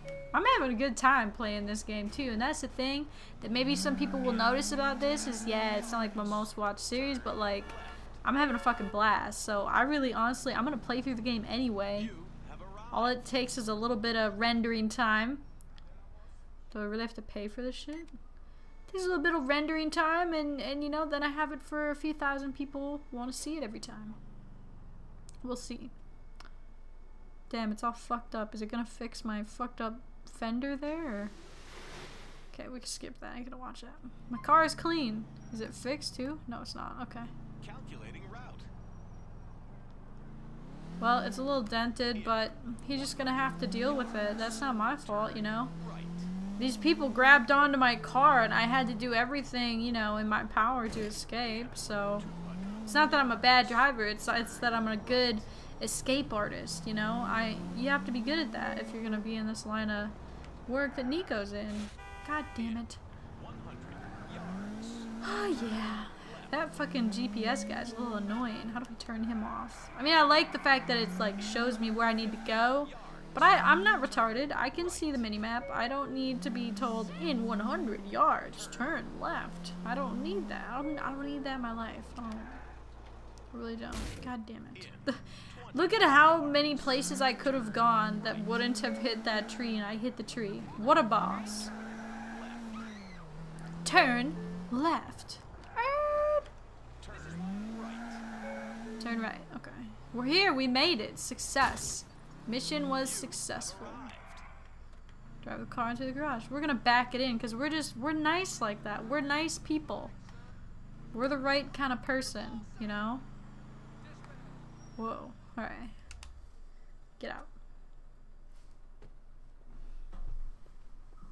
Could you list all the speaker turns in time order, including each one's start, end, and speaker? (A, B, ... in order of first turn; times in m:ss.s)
0:00.3-0:07.7 A
0:07.1-0:08.1 B
0:08.2-0:12.1 A
0:12.0-0:13.3 B
0:12.9-0:15.4 A
0:16.7-0:18.2 A
0:18.9-0:24.2 A
0:25.4-0:25.9 A
0:27.5-0:31.3 A
0:32.5-0:37.3 A
0:37.6-0:38.7 B
0:41.0-0:45.7 A
0:44.6-0:46.3 B
0:46.6-0:52.3 A
0:52.2-0:52.8 B
0:52.9-1:00.1 A
0:54.4-0:55.3 B
1:00.7-1:03.0 A
1:02.6-1:02.8 B
1:03.4-1:05.1 B
1:05.2-1:22.6 A
1:06.2-1:06.5 B
1:12.7-1:13.5 B
1:14.7-1:15.3 B
1:18.6-1:19.0 B
1:23.5-1:31.7 A
1:24.8-1:28.7 B
1:30.7-1:32.8 B
1:33.8-1:36.5 A
1:37.0-1:38.2 B
1:39.0-1:44.1 A
1:43.0-1:44.4 B
1:45.4-1:50.1 A
1:51.1-1:53.3 A
1:55.0-1:56.0 A
1:57.2-1:57.5 A